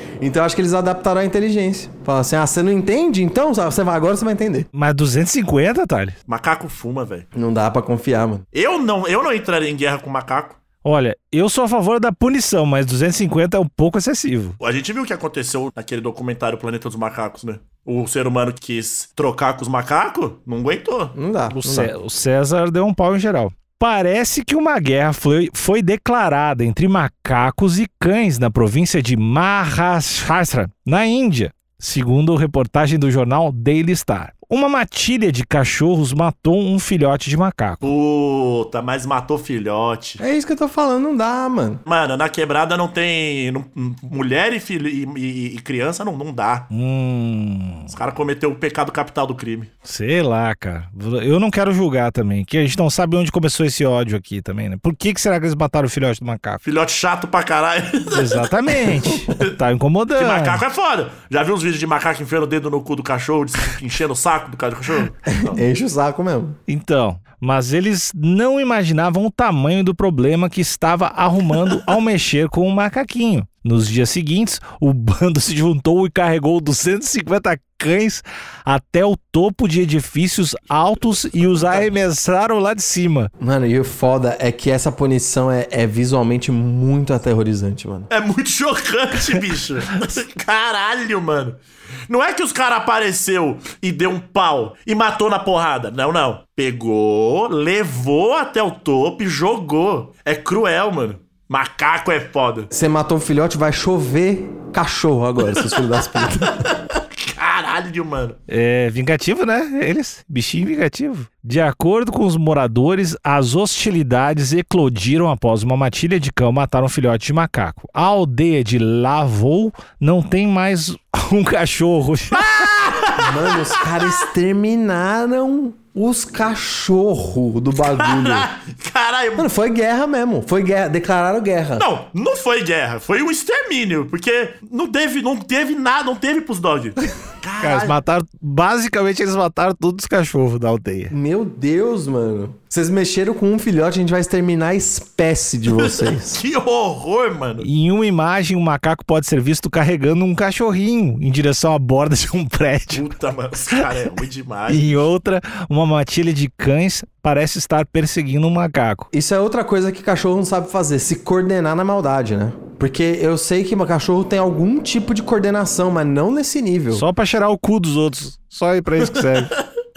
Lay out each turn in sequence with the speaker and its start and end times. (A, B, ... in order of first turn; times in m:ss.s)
0:00.2-0:04.7 A
0:04.7-0:06.1 B
0:06.3-0:07.3 C
0:07.3-0:08.4 A
0:08.5-0:10.6 C
0:10.8-0:14.6 B
0:14.6-0:21.1 C
0:21.1-0:21.9 A
0:21.5-0:37.9 B
0:37.8-0:40.2 C
0:40.2-0:41.8 A
0:41.8-0:46.7 C
0:46.7-0:47.9 B
0:47.9-0:49.7 C
0:49.8-0:56.6 B
0:56.6-0:59.6 C
0:58.1-1:00.6 B
1:00.2-1:05.6 C
1:05.3-1:06.6 A
1:06.7-1:23.3 B
1:23.4-1:28.1 A
1:28.1-1:42.7 C
1:42.7-1:46.7 A
1:45.4-1:46.0 C
1:46.7-1:48.4 C
1:48.5-2:02.7 B
2:02.3-2:04.2 C
2:03.2-2:08.5 A
2:07.8-2:09.5 C
2:09.4-2:11.8 A
2:11.8-2:17.9 C
2:17.6-2:21.1 B
2:21.1-2:26.4 A
2:25.7-2:27.7 C
2:27.6-2:33.1 B
2:32.9-2:35.0 C
2:34.7-2:39.1 B
2:39.1-2:47.0 A
2:46.9-2:49.5 B
2:49.0-2:49.6 C